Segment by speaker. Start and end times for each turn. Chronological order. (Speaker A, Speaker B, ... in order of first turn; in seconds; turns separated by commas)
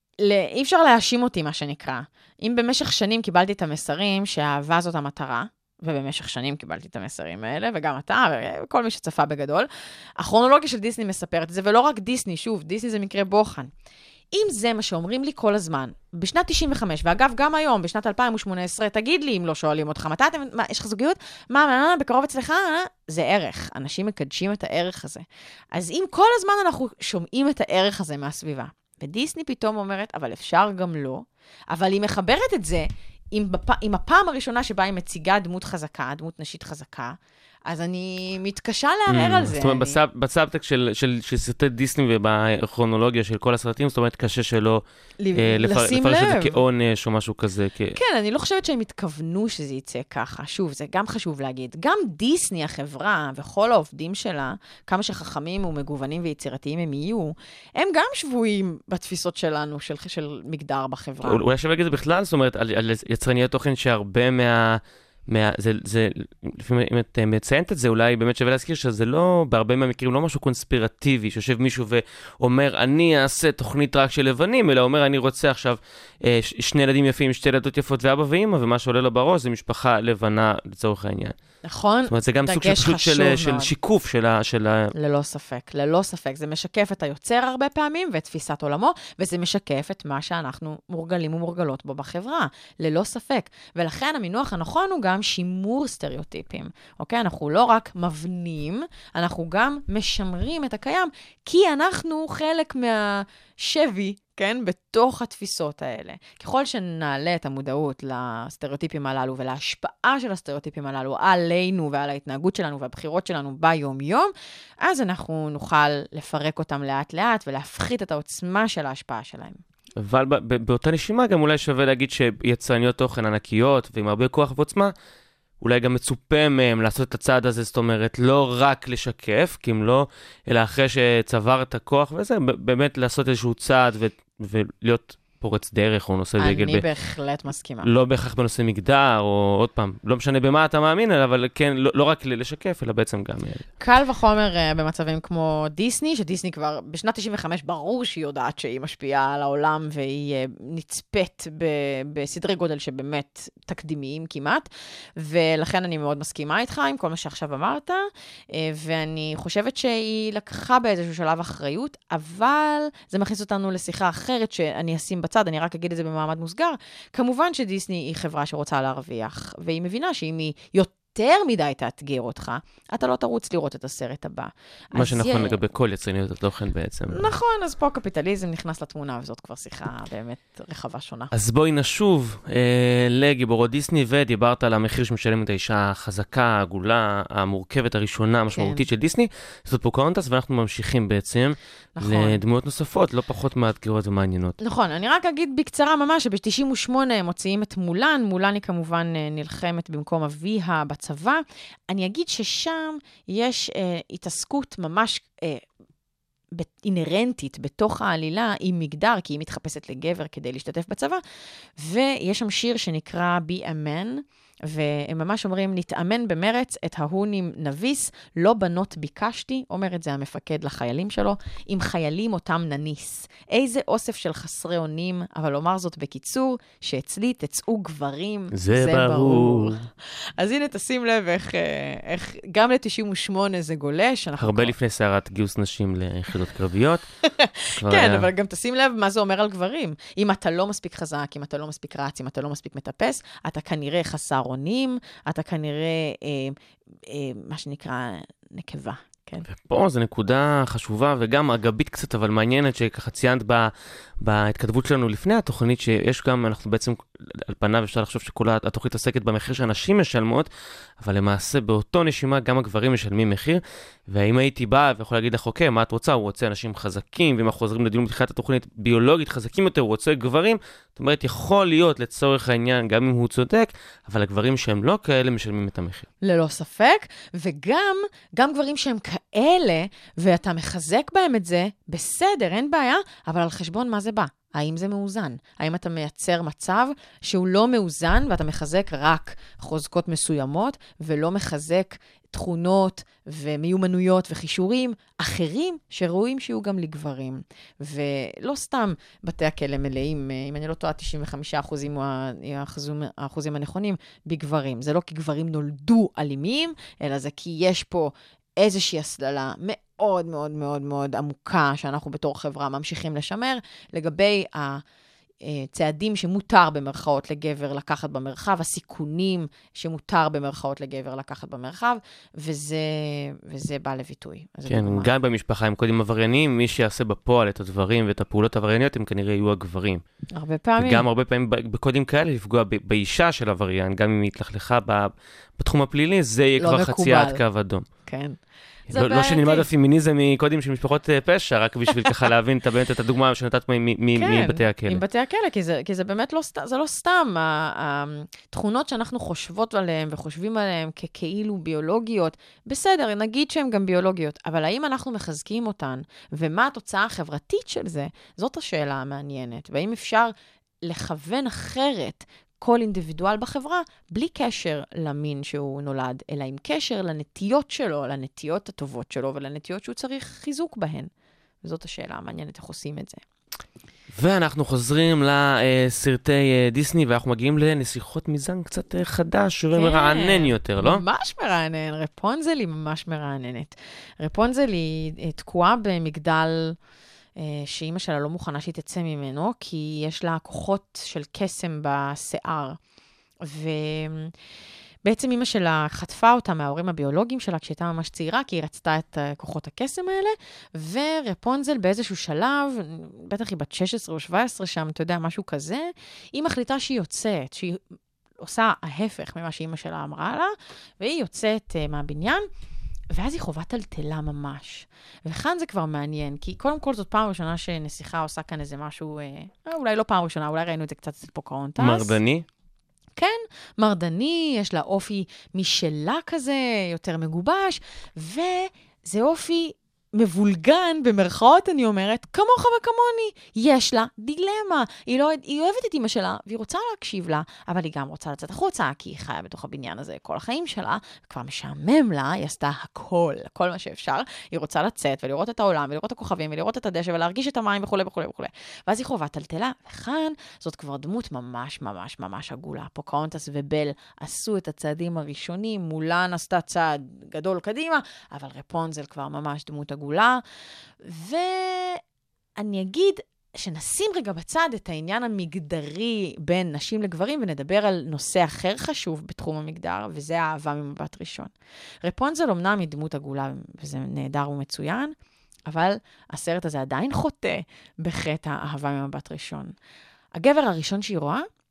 Speaker A: 0.2-13.7, Speaker A: 14.3-37.1, Speaker A: 37.7-40.0, Speaker B: 39.1-44.8, Speaker A: 45.2-46.6, Speaker B: 45.4-48.0, Speaker A: 48.0-61.4, Speaker B: 61.2-81.3, Speaker A: 81.6-83.7, Speaker B: 82.1-84.9, Speaker A: 85.0-114.3, Speaker A: 114.8-119.6, Speaker B: 120.0-124.9, Speaker B: 125.6-136.8, Speaker A: 136.4-137.9, Speaker B: 137.8-143.7, Speaker A: 143.8-175.6, Speaker B: 174.9-177.3, Speaker A: 177.1-181.3, Speaker B: 181.3-194.6, Speaker A: 188.6-188.8, Speaker A: 191.9-192.4, Speaker A: 194.6-205.6, Speaker A: 206.5-211.2, Speaker A: 211.8-229.8, Speaker B: 228.5-229.8, Speaker A: 230.4-234.7, Speaker B: 234.4-237.1, Speaker A: 237.3-246.6, Speaker B: 237.8-238.3, Speaker A: 247.1-249.4, Speaker B: 249.5-260.5, Speaker B: 261.0-276.1, Speaker A: 276.2-314.8, Speaker A: 315.4-325.1, Speaker B: 324.7-330.0, Speaker A: 330.3-331.0, Speaker B: 330.8-337.9, Speaker A: 336.6-337.4, Speaker A: 338.1-338.4, Speaker A: 338.9-339.6, Speaker B: 338.9-345.0, Speaker A: 344.1-371.1, Speaker A: 371.6-373.2, Speaker B: 374.1-381.0, Speaker A: 379.7-386.8, Speaker A: 387.4-392.8, Speaker A: 393.4-394.3, Speaker A: 395.1-407.8, Speaker A: 408.4-412.5, Speaker A: 413.1-422.2, Speaker B: 421.8-422.4, Speaker A: 423.2-460.4, Speaker A: 461.0-462.0, Speaker A: 462.6-471.5, Speaker A: 472.0-475.1, Speaker A: 475.7-479.7, Speaker A: 480.3-481.4